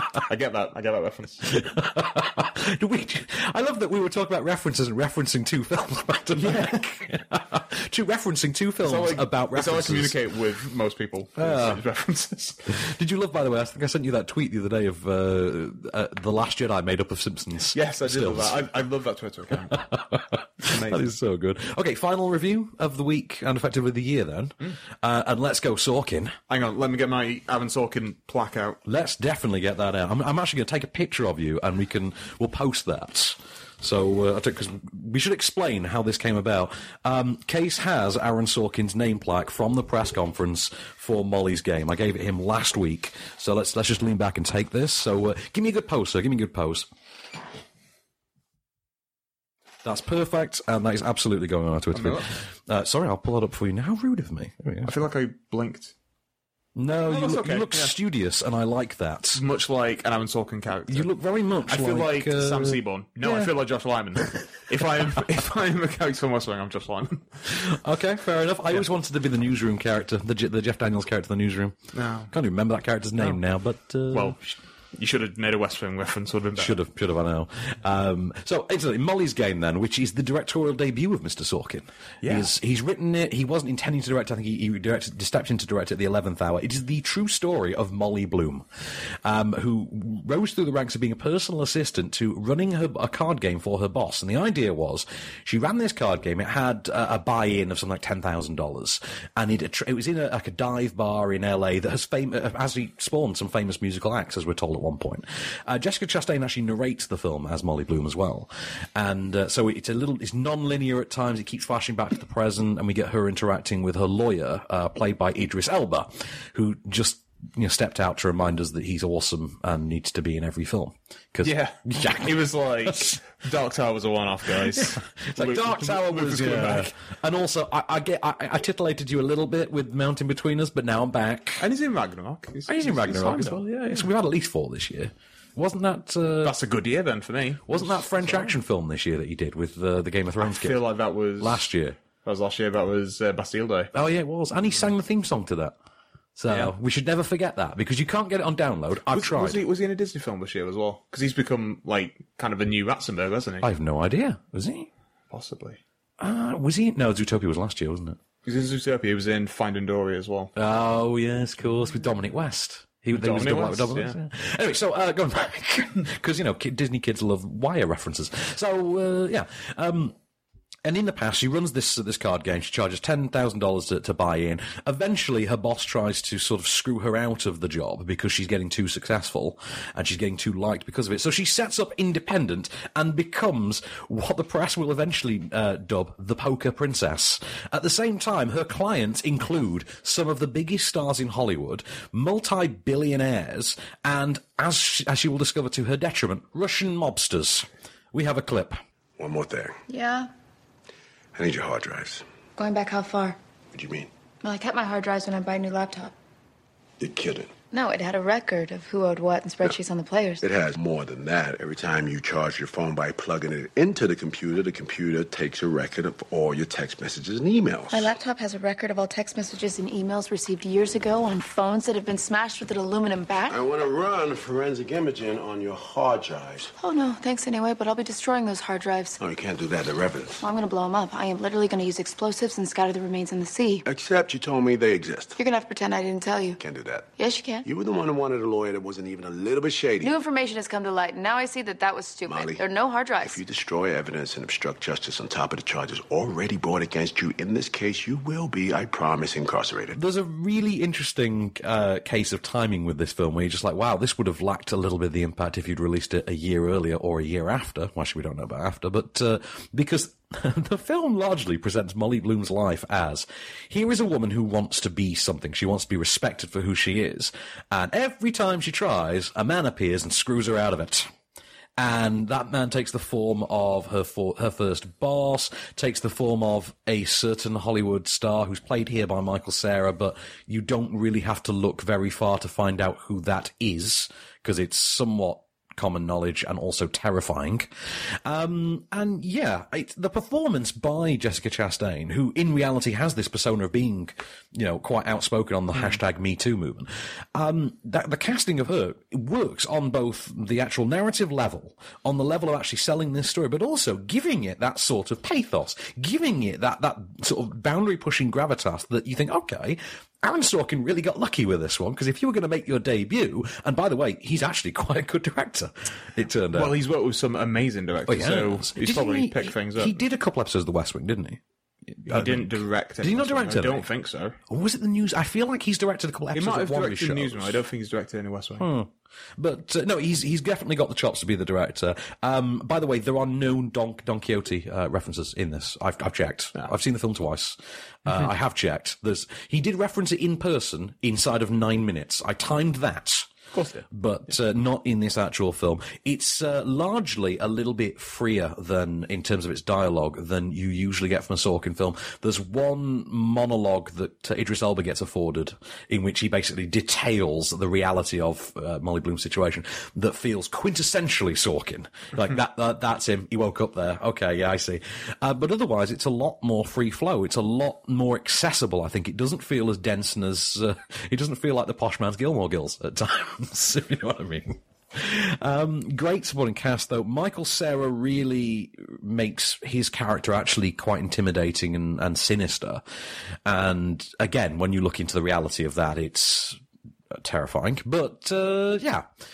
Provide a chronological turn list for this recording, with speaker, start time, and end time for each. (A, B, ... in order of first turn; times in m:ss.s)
0:00.3-0:01.4 A
0:01.5-0:10.2 B
0:06.4-0:06.8 A
0:08.8-0:12.6 A
0:11.4-0:11.8 B
0:12.7-0:18.7 B
0:17.7-0:19.8 A
0:19.7-0:26.4 B
0:20.6-0:21.1 A
0:26.5-0:28.8 A
0:28.8-0:46.9 B
0:49.8-0:54.9 B
0:51.9-0:52.3 A
0:54.8-0:55.9 A
0:56.8-0:59.4 B
0:57.0-0:57.9 A
0:59.4-1:01.1 A
1:00.9-1:03.5 B
1:01.6-1:07.3 A
1:07.5-1:11.8 B
1:11.9-1:12.3 A
1:12.3-1:14.4 B
1:14.1-1:16.8 A
1:16.6-1:28.7 B
1:22.2-1:22.5 A
1:29.2-2:03.2 B
2:01.4-2:06.9 A
2:04.7-2:11.6 B
2:11.6-2:14.1 A
2:12.7-2:16.6 B
2:16.4-2:18.6 A
2:17.6-2:20.8 B
2:20.4-2:21.7 A
2:21.4-2:22.0 B
2:22.2-2:23.9 A
2:23.9-2:25.8 B
2:26.4-2:29.6 B
2:26.5-2:26.7 A
2:29.1-2:33.7 A
2:33.6-2:34.9 B
2:35.3-2:35.8 A
2:36.2-2:38.2 B
2:38.4-2:40.5 A
2:40.6-2:50.2 B
2:43.1-2:44.2 A
2:50.8-3:18.8 B
3:19.2-3:19.8 C
3:19.9-3:20.3 D
3:21.4-3:22.2 C
3:22.6-3:23.4 D
3:23.7-3:24.1 C
3:24.4-3:26.2 D
3:27.0-3:27.5 C
3:27.7-3:30.5 D
3:30.4-3:38.2 C
3:37.9-3:43.6 D
3:43.5-3:46.7 C
3:46.8-3:49.2 D
3:49.2-3:50.4 C
3:50.4-3:53.8 D
3:53.8-3:55.4 C
3:55.4-3:56.6 D
3:56.6-3:57.1 C
3:57.2-3:57.7 D
3:57.6-4:00.2 C
4:00.0-4:03.4 D
4:02.2-4:02.6 C
4:03.2-4:10.0 C
4:10.0-4:31.1 B
4:31.8-4:47.7 B
4:48.2-5:16.8 B
4:55.7-4:56.0 A
5:16.5-5:20.0 A
5:18.1-5:23.9 B
5:22.1-5:24.4 A
5:24.5-5:27.6 B
5:26.3-5:28.7 A
5:28.6-5:43.3 B
5:43.5-5:43.9 A
5:43.9-6:22.8 B
6:23.5-6:26.6 B
6:27.1-6:29.1 B